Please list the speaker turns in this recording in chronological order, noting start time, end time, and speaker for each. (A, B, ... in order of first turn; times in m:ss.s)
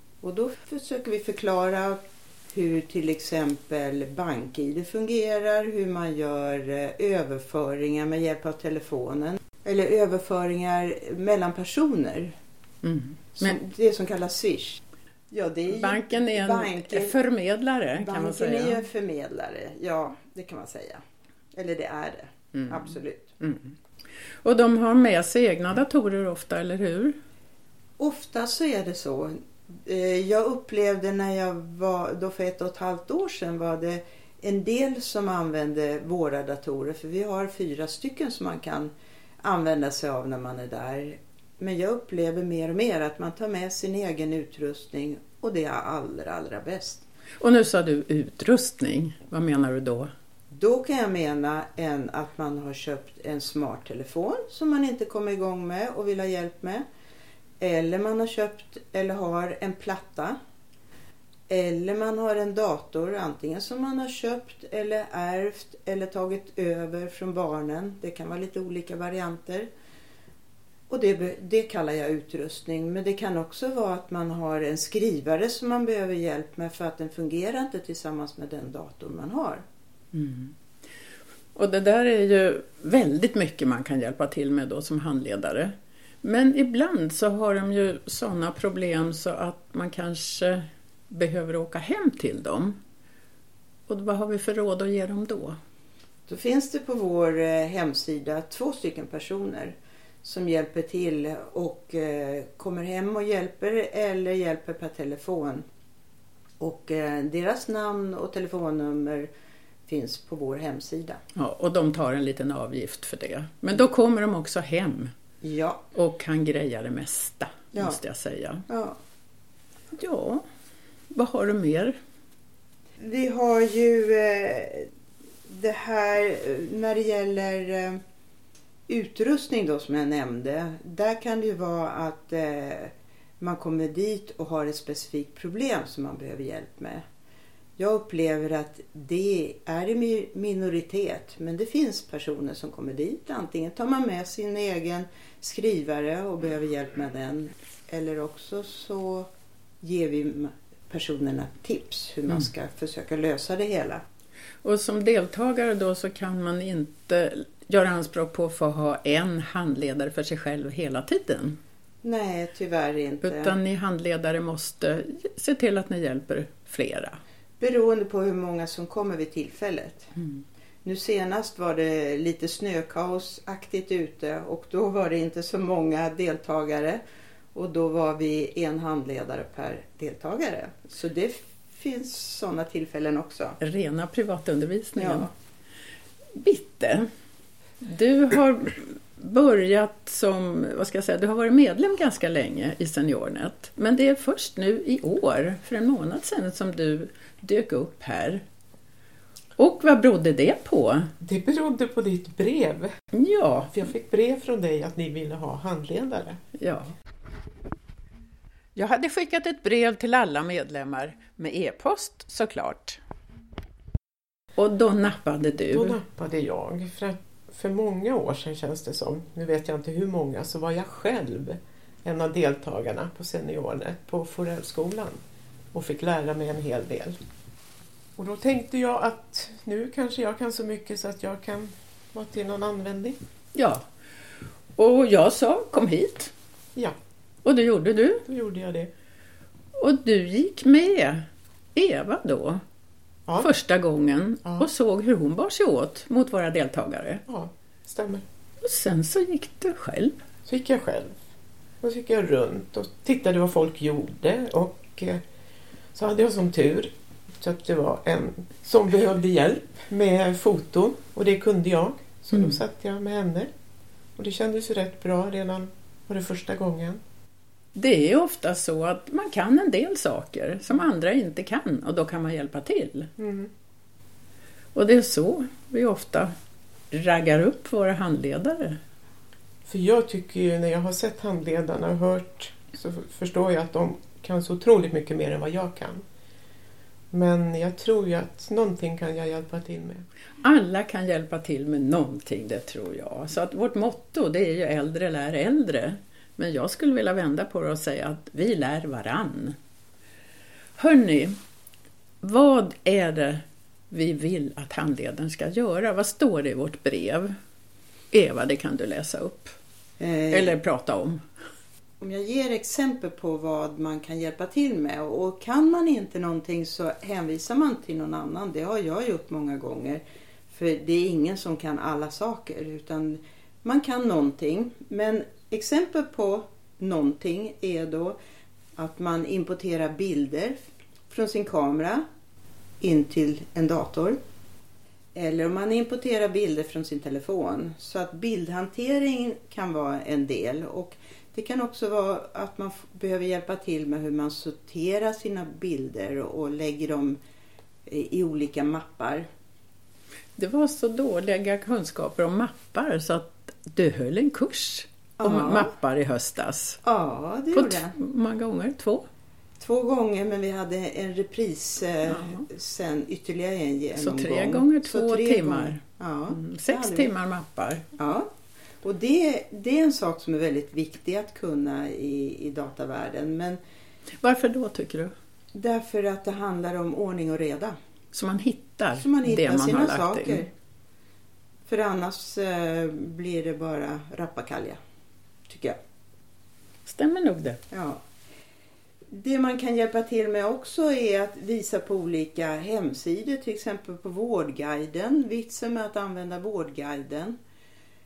0:00.2-0:12.3 A
0:12.8-0:13.6 B
0:13.4-0:17.1 A
0:15.7-0:18.8 B
0:18.0-0:21.0 A
0:21.5-0:23.3 A
0:22.5-0:23.8 B
0:24.4-0:27.2 B
0:28.0-0:47.0 A
0:47.4-0:50.1 B
0:50.5-0:56.8 A
0:57.6-1:00.4 A
1:01.5-1:09.7 A
1:10.9-1:19.6 A
1:20.1-1:20.5 B
1:21.5-1:32.8 B
1:33.9-1:35.6 B
1:36.3-1:45.6 A
1:46.6-1:49.3 A
1:49.9-1:51.2 A
1:51.3-1:55.1 B
1:55.4-1:55.8 A
1:55.9-1:58.6 B
1:58.7-1:59.0 A
1:59.9-2:00.4 B
2:01.1-2:02.0 B
2:03.0-2:04.9 A
2:05.5-2:08.0 A
2:08.9-2:17.0 A
2:17.8-2:29.3 A
2:29.8-2:34.0 A
2:34.6-2:41.6 B
2:42.0-2:43.5 A
2:43.2-2:47.2 B
2:47.6-2:50.1 A
2:50.8-2:57.0 A
2:57.5-3:03.6 A
3:03.6-3:05.3 B
3:05.0-3:05.3 A
3:06.3-3:07.1 B
3:07.8-3:18.4 B
3:19.6-3:21.1 B
3:21.2-3:22.9 C
3:23.1-3:23.8 B
3:23.7-3:26.4 C
3:26.5-3:26.9 B
3:28.7-3:33.0 B
3:34.6-3:36.0 B
3:35.7-3:45.2 C
3:45.7-3:47.2 C
3:48.2-3:53.2 C
3:53.5-3:53.8 B
3:54.8-3:56.3 B
3:57.4-3:58.2 B
3:58.3-3:58.9 C
3:59.7-4:02.6 B
4:03.4-4:07.2 B
4:07.3-4:08.2 C
4:08.6-4:10.2 B
4:10.4-4:11.2 C
4:11.8-4:15.2 C
4:15.9-4:23.5 C
4:24.2-4:27.0 C
4:27.7-4:33.1 B
4:33.2-4:33.5 C
4:34.7-4:36.3 B
4:36.9-4:38.8 B
4:39.6-4:46.0 C
4:47.1-4:50.0 C
4:50.4-4:59.6 B
5:00.8-5:01.4 B
5:02.2-5:07.3 B
5:08.1-5:09.5 B
5:10.0-5:10.5 A
5:10.3-5:11.2 B
5:12.0-5:28.2 A
5:28.8-5:30.6 A
5:31.1-5:32.0 A
5:32.8-5:34.2 A
5:35.1-5:47.2 A
5:47.9-5:49.3 A
5:50.4-5:56.8 B
5:55.2-5:55.7 A
5:56.8-5:58.0 A
5:57.5-5:59.1 B
5:59.6-6:07.1 A
6:02.1-6:02.4 B
6:04.0-6:07.8 B
6:08.0-6:08.3 A
6:08.8-6:13.6 A
6:14.2-6:15.1 B
6:15.5-6:17.8 A
6:18.1-6:20.4 B
6:19.0-6:20.5 A
6:21.7-6:24.8 A
6:25.5-6:25.8 A
6:26.8-6:27.6 B
6:27.7-6:28.0 A
6:29.1-6:37.4 A